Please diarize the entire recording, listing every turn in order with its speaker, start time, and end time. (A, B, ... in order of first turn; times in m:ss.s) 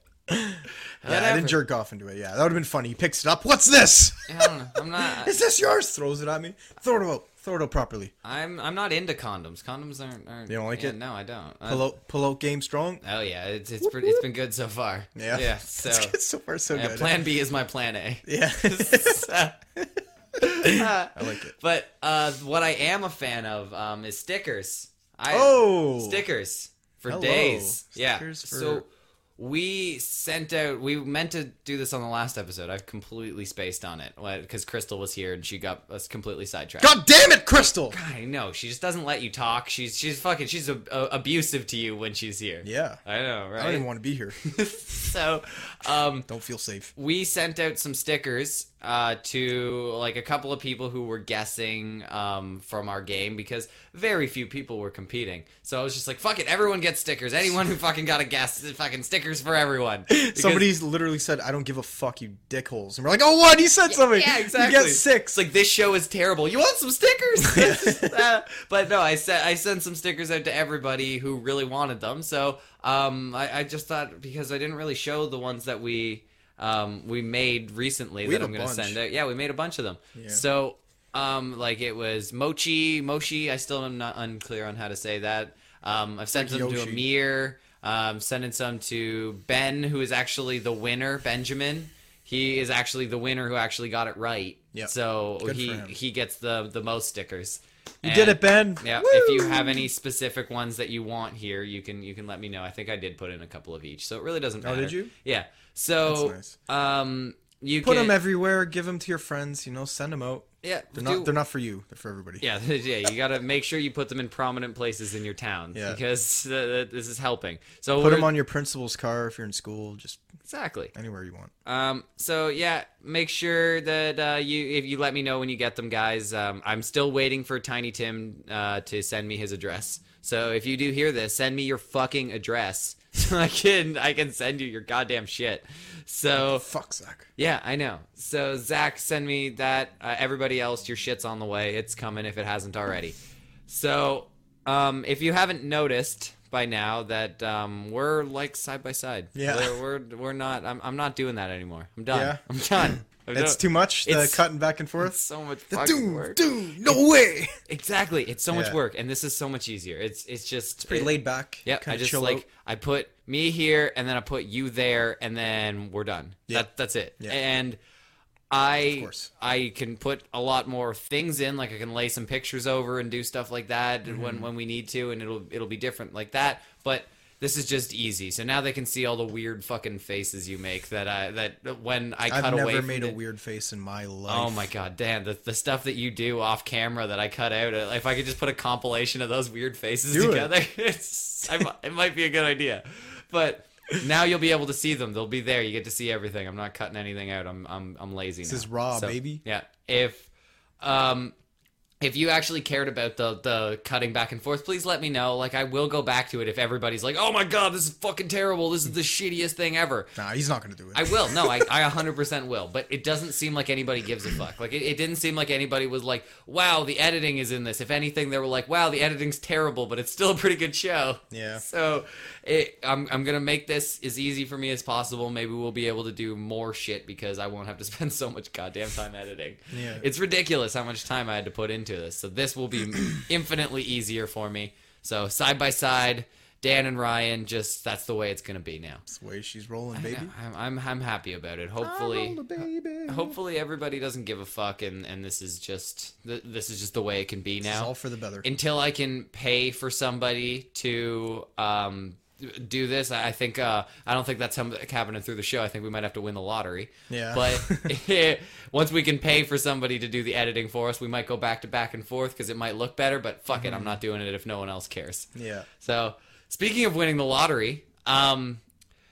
0:00.3-0:08.1 A
0:01.0-0:01.6 B
0:04.3-0:05.3 B
0:08.2-0:11.9 B
0:10.5-0:11.0 A
0:11.6-0:13.0 A
0:13.0-0:16.1 B
0:13.8-0:14.2 A
0:15.2-0:17.1 A
0:16.7-0:19.6 B
0:18.2-0:21.5 A
0:20.4-0:36.9 B
0:25.3-0:26.2 A
0:27.1-0:28.8 A
0:36.8-0:38.0 A
0:37.9-0:43.8 B
0:42.6-0:43.0 A
0:43.6-0:44.4 A
0:44.4-0:46.3 B
0:46.2-0:46.9 A
0:47.0-1:00.7 B
1:00.1-1:05.4 A
1:03.8-1:48.2 B
1:07.5-1:08.1 A
1:18.2-1:19.0 A
1:20.1-1:20.4 A
1:26.3-1:27.0 A
1:34.7-1:35.9 A
1:38.0-1:39.9 A
1:44.6-1:45.1 A
1:46.0-1:46.6 A
1:47.8-1:52.4 A
1:50.6-1:51.3 B
1:52.4-1:58.3 B
1:55.7-1:56.0 A
1:58.0-2:00.2 A
2:00.4-2:00.9 B
2:00.9-2:01.5 A
2:01.6-2:16.6 B
2:16.4-2:17.3 A
2:17.4-2:23.2 B
2:23.7-2:34.4 B
2:29.3-2:29.8 A
2:32.1-2:32.4 A
2:33.3-2:35.2 A
2:35.0-2:37.0 B
2:35.7-2:37.6 A
2:37.7-2:47.8 B
2:38.5-2:38.8 A
2:40.8-2:42.4 A
2:48.5-3:03.2 B
2:48.9-2:49.3 A
2:54.1-2:54.5 A
3:02.3-3:04.7 A
3:04.3-3:20.3 B
3:10.1-3:10.5 A
3:18.4-3:19.4 A
3:20.8-3:21.3 B
3:22.0-3:30.1 B
3:30.2-3:31.7 A
3:30.9-3:59.0 B
3:41.3-3:41.6 A
3:49.7-3:50.0 A
3:59.0-4:00.3 A
3:59.9-4:07.9 B
4:01.8-4:03.4 A
4:07.6-4:08.5 A
4:08.4-4:25.3 B
4:17.1-4:17.9 A
4:23.5-4:24.0 A
4:25.3-4:25.7 A
4:25.8-4:28.6 B